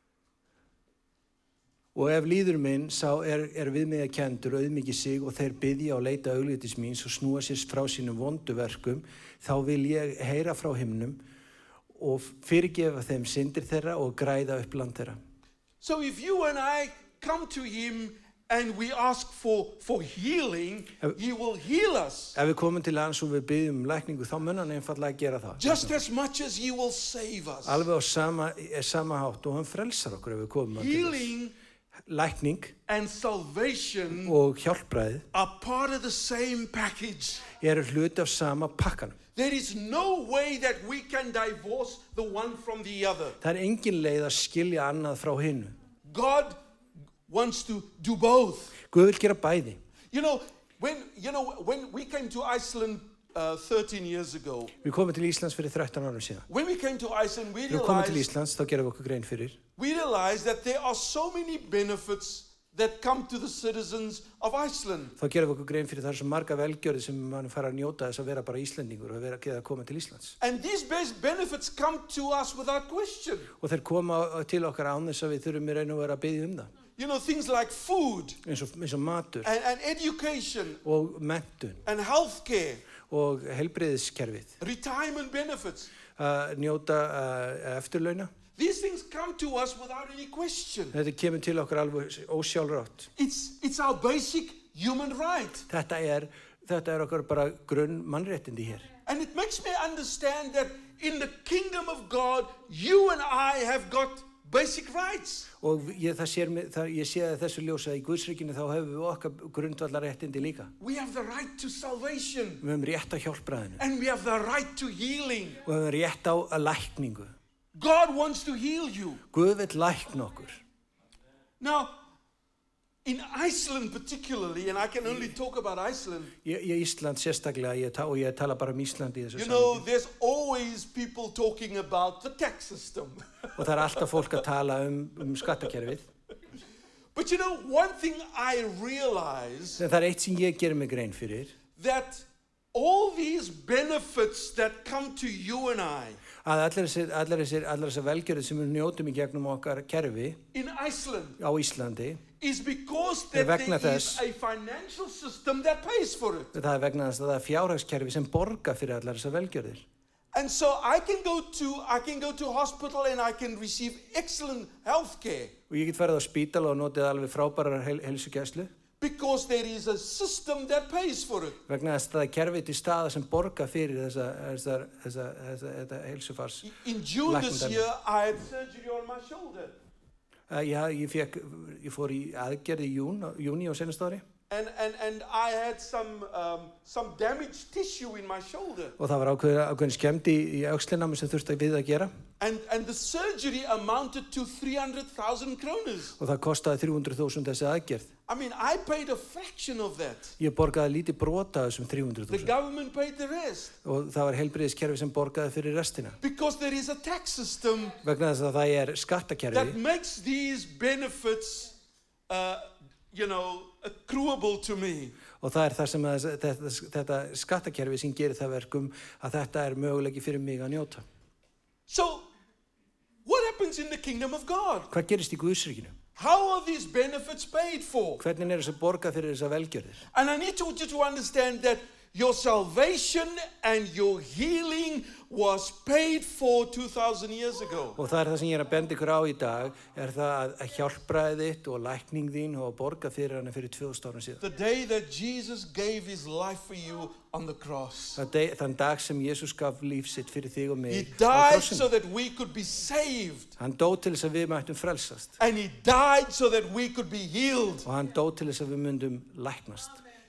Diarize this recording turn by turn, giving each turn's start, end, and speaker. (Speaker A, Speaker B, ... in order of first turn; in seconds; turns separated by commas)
Speaker A: 1.9-11.2, Speaker A: 11.9-15.2, Speaker B: 15.8-22.4, Speaker A: 22.4-26.0, Speaker B: 25.6-27.9, Speaker A: 27.6-31.3, Speaker B: 30.8-31.5, Speaker A: 32.0-32.8, Speaker B: 32.9-34.4, Speaker A: 34.2-35.2, Speaker B: 35.3-37.5, Speaker A: 37.5-39.2, Speaker B: 39.4-43.4, Speaker A: 43.4-45.8, Speaker B: 46.1-46.6, Speaker B: 47.2-48.8, Speaker A: 48.9-49.8, Speaker B: 50.1-54.7, Speaker A: 54.8-56.5, Speaker B: 56.5-58.3, Speaker A: 57.7-59.6, Speaker B: 59.8-65.2, Speaker A: 65.2-70.4, Speaker B: 70.4-73.5, Speaker A: 73.6-76.7, Speaker B: 77.0-78.4, Speaker A: 78.4-79.5, Speaker B: 79.4-80.8, Speaker A: 80.8-81.8, Speaker B: 81.8-82.9, Speaker A: 83.0-84.6, Speaker B: 84.6-85.9, Speaker A: 86.2-88.3, Speaker B: 88.6-91.0, Speaker A: 90.9-93.1, Speaker B: 93.2-95.7, Speaker A: 95.7-98.9, Speaker B: 99.1-105.5, Speaker A: 105.6-110.7, Speaker B: 110.8-112.6, Speaker A: 112.6-113.8, Speaker B: 113.8-115.6, Speaker A: 115.7-117.3, Speaker B: 117.8-119.2, Speaker A: 119.3-120.6, Speaker B: 121.6-121.9, Speaker B: 123.0-126.3, Speaker A: 126.4-129.9, Speaker B: 129.3-134.2, Speaker A: 133.6-136.1, Speaker B: 137.2-139.8, Speaker A: 139.8-141.5, Speaker B: 141.8-146.2, Speaker A: 146.4-150.4, Speaker B: 150.5-151.4, Speaker A: 151.4-152.2, Speaker B: 152.4-156.6, Speaker A: 153.3-154.2, Speaker A: 156.5-159.8, Speaker B: 160.3-165.6, Speaker A: 165.7-168.7, Speaker B: 169.0-171.6, Speaker A: 171.7-176.7, Speaker B: 176.6-179.8, Speaker A: 177.2-177.8, Speaker A: 180.5-184.2, Speaker B: 184.5-189.0, Speaker A: 189.0-192.1, Speaker B: 192.4-196.2, Speaker A: 196.2-198.1, Speaker B: 198.3-200.4, Speaker A: 200.4-202.5, Speaker B: 202.3-203.8, Speaker A: 203.8-206.2, Speaker B: 206.2-208.0, Speaker A: 208.0-209.8, Speaker B: 209.5-211.7, Speaker B: 212.3-215.2, Speaker A: 215.4-221.1, Speaker B: 221.9-222.3, Speaker B: 223.3-224.9, Speaker A: 224.9-225.9, Speaker B: 226.2-228.2, Speaker A: 228.2-230.0, Speaker B: 230.1-238.0, Speaker A: 238.0-244.4, Speaker B: 244.4-248.2, Speaker A: 248.2-251.9, Speaker B: 250.9-253.6, Speaker A: 253.6-255.3, Speaker B: 255.4-257.9, Speaker A: 257.8-260.0